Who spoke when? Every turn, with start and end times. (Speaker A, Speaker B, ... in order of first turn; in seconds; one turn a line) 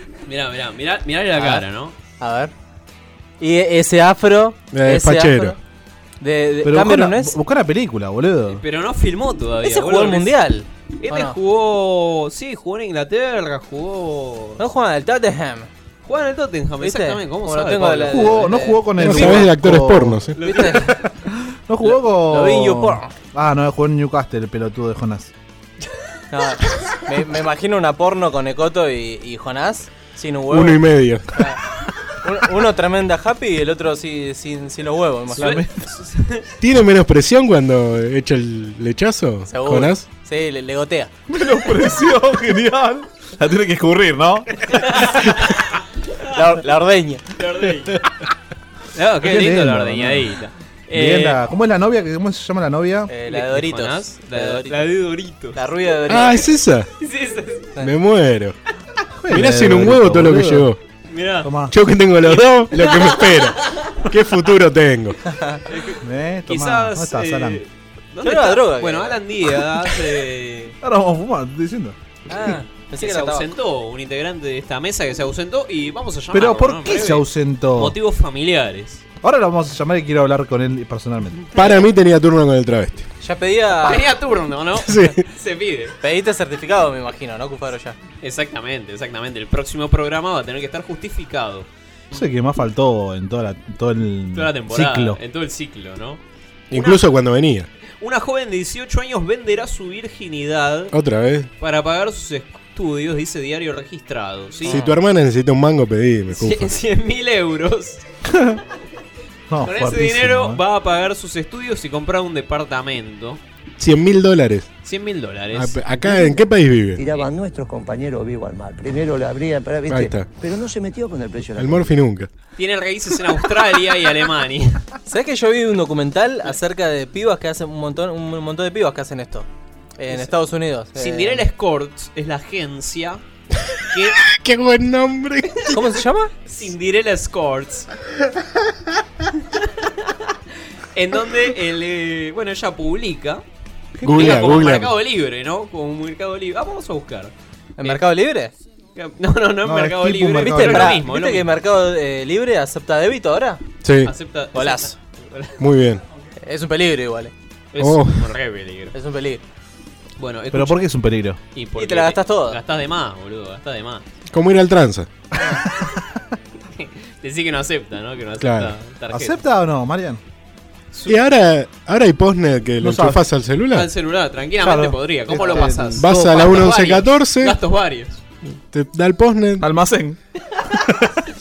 Speaker A: 0.2-1.9
Speaker B: 1.4-1.6
Speaker B: 2.2-2.5
Speaker B: 3.4-5.5
Speaker C: 4.7-5.6
Speaker B: 6.2-7.3
Speaker D: 6.6-8.6
Speaker A: 8.5-10.3
Speaker B: 9.6-11.4
Speaker A: 11.0-14.6
Speaker B: 14.6-15.7
Speaker A: 16.0-18.5
Speaker B: 16.8-19.4
Speaker D: 18.0-20.3
Speaker C: 19.0-20.3
Speaker A: 20.4-21.0
Speaker B: 20.4-21.0
Speaker D: 21.3-25.3
Speaker B: 21.8-23.1
Speaker B: 26.3-30.8
Speaker C: 30.5-31.4
Speaker B: 32.2-35.6
Speaker D: 35.4-35.8
Speaker A: 35.4-36.5
Speaker C: 36.6-40.0
Speaker B: 39.5-41.1
Speaker D: 41.3-44.5
Speaker A: 44.7-45.6
Speaker B: 46.3-47.2
Speaker A: 47.4-48.0
Speaker A: 48.9-51.4
Speaker D: 49.2-50.3
Speaker D: 50.9-53.1
Speaker B: 53.1-54.9
Speaker A: 53.2-55.9
Speaker B: 55.5-56.5
Speaker C: 56.1-56.9
Speaker A: 57.0-57.7
Speaker C: 57.8-58.5
Speaker D: 59.2-60.7
Speaker C: 59.3-60.8
Speaker A: 61.1-61.5
Speaker D: 61.4-61.7
Speaker C: 61.7-65.2
Speaker A: 62.2-64.0
Speaker A: 65.7-70.8
Speaker D: 66.0-67.6
Speaker B: 68.2-69.2
Speaker D: 70.8-72.0
Speaker B: 72.3-73.5
Speaker A: 73.0-79.0
Speaker D: 76.3-77.9
Speaker D: 79.2-81.4
Speaker C: 81.5-83.1
Speaker B: 83.2-84.1
Speaker A: 83.8-86.0
Speaker C: 84.8-85.2
Speaker B: 86.0-88.0
Speaker A: 88.2-91.7
Speaker D: 92.1-95.2
Speaker A: 94.3-96.2
Speaker C: 96.7-97.7
Speaker A: 96.7-97.0
Speaker A: 98.0-100.9
Speaker C: 100.9-101.5
Speaker A: 101.6-104.8
Speaker B: 104.6-105.0
Speaker C: 104.7-106.7
Speaker A: 106.3-108.0
Speaker D: 108.3-108.6
Speaker D: 109.5-110.6
Speaker A: 109.6-113.4
Speaker C: 113.8-114.7
Speaker A: 114.8-115.8
Speaker C: 115.5-117.0
Speaker E: 117.0-121.9
Speaker C: 119.9-120.3
Speaker C: 121.5-122.3
Speaker A: 122.6-124.8
Speaker B: 125.1-129.5
Speaker B: 130.0-131.4
Speaker A: 130.9-133.2
Speaker A: 133.9-134.2
Speaker C: 134.2-135.9
Speaker B: 135.7-136.3
Speaker A: 136.5-137.9
Speaker A: 140.9-143.4
Speaker D: 144.0-144.6
Speaker C: 144.0-144.9
Speaker A: 144.1-148.0
Speaker B: 147.8-148.5
Speaker A: 148.9-151.5
Speaker D: 149.6-151.0
Speaker B: 150.5-153.6
Speaker C: 153.8-154.1
Speaker A: 154.0-155.6
Speaker B: 154.5-154.9
Speaker C: 155.6-156.0
Speaker B: 156.4-157.3
Speaker A: 157.7-158.9
Speaker C: 157.8-158.3
Speaker B: 158.9-159.4
Speaker A: 160.2-160.8
Speaker D: 160.5-161.4
Speaker A: 161.5-164.1
Speaker B: 161.8-162.6
Speaker C: 164.3-165.1
Speaker A: 166.8-169.4
Speaker C: 168.4-168.7
Speaker D: 169.1-170.2
Speaker A: 170.9-171.2
Speaker C: 171.1-173.9
Speaker D: 172.8-173.2
Speaker A: 173.7-178.2
Speaker D: 174.6-176.6
Speaker C: 176.0-177.6
Speaker C: 178.5-179.7
Speaker D: 179.6-180.2